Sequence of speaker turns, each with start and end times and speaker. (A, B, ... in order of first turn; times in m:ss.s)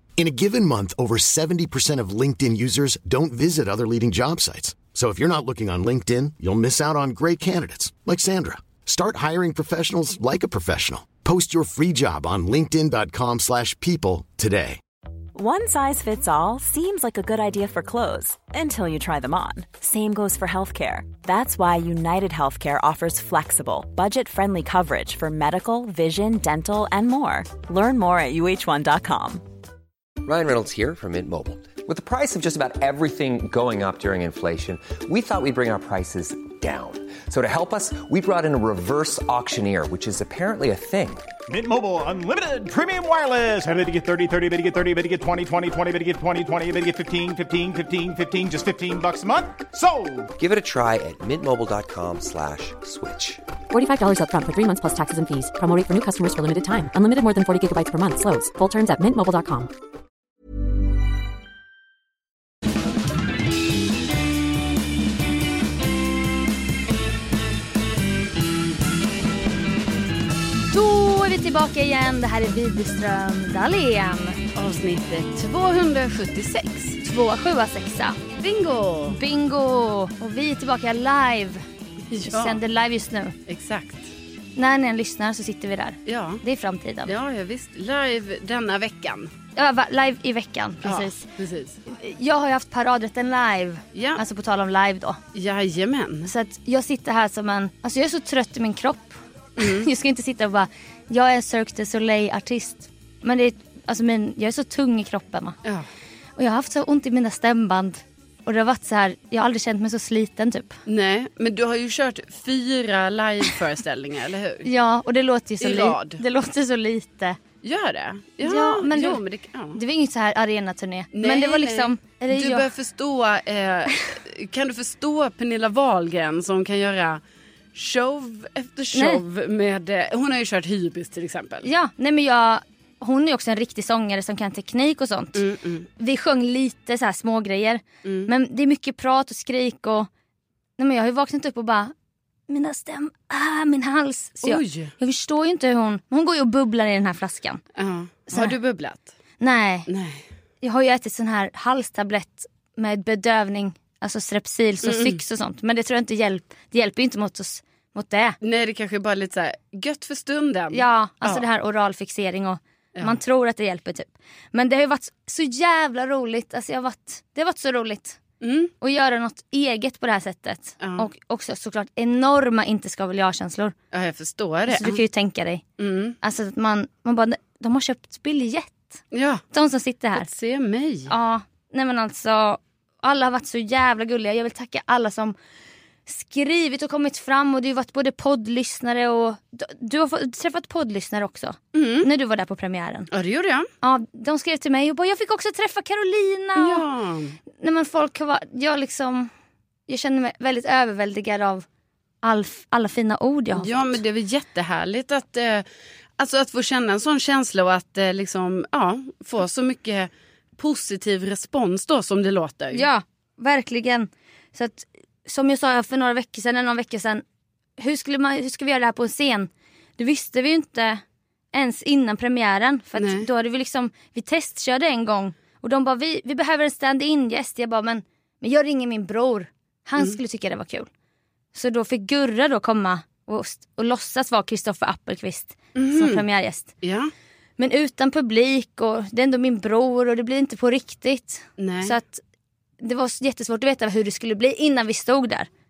0:00.2-0:14.8 A
0:15.3-0:29.4 B
0:30.2-0:41.3 C
0:41.5-0:50.3 D
0:50.4-0:53.4 C
0:53.7-0:59.7 E
1:10.7-1:14.4 F
1:14.5-1:17.0 G
1:17.0-1:18.2 F
1:18.3-1:19.2 G
1:19.1-1:21.6 F
1:22.1-1:22.6 G
1:22.2-1:23.4 F
1:23.5-1:24.1 G
1:24.6-1:27.1 F
1:26.0-1:26.4 G
1:27.0-1:29.3 G
1:29.6-1:31.3 F
1:30.8-1:31.8 G
1:31.8-1:35.2 F
1:33.9-1:34.2 G
1:35.3-1:36.3 G
1:36.2-1:45.6 F
1:39.6-1:39.9 G
1:46.4-1:50.8 F
1:50.9-1:54.7 G
1:54.6-1:57.4 F
1:55.6-1:56.2 G
1:57.6-1:59.8 G
1:58.4-1:59.2 F
1:59.7-2:02.7 F
2:01.1-2:07.2 G
2:07.7-2:11.7 G
2:08.9-2:09.2 F
2:11.6-2:15.4 F
2:15.4-2:15.9 G
2:16.0-2:20.1 F
2:18.0-2:18.3 G
2:20.8-2:21.9 F
2:22.5-2:27.6 F
2:24.4-2:24.9 G
2:27.8-2:29.1 G
2:28.3-2:28.6 F
2:29.4-2:29.9 F
2:29.9-2:30.2 G
2:30.6-2:38.4 F
2:34.8-2:35.2 G
2:38.4-2:41.4 G
2:40.7-2:48.2 F
2:48.4-2:48.7 G
2:48.8-2:53.7 F
2:50.8-2:51.1 G
2:53.9-2:55.0 G
2:54.7-2:55.6 F
2:55.8-2:56.2 G
2:56.2-2:59.0 F
2:59.1-2:59.4 G
2:59.5-3:00.3 F
3:00.2-3:01.1 G
3:01.1-3:05.3 F
3:06.1-3:13.1 F
3:11.7-3:12.1 G
3:13.1-3:13.7 G
3:13.8-3:16.8 F
3:16.6-3:17.4 G
3:17.6-3:19.3 F
3:19.9-3:21.6 F
3:22.2-3:24.0 F
3:23.6-3:25.6 G
3:26.2-3:32.9 G
3:32.7-3:37.2 F
3:37.8-3:41.0 F
3:41.5-3:50.9 F
3:43.0-3:43.2 G
3:51.5-3:56.7 F
3:55.7-3:56.2 G
3:56.8-3:57.1 G
3:57.6-4:02.2 F
4:01.6-4:02.0 G
4:02.8-4:05.5 F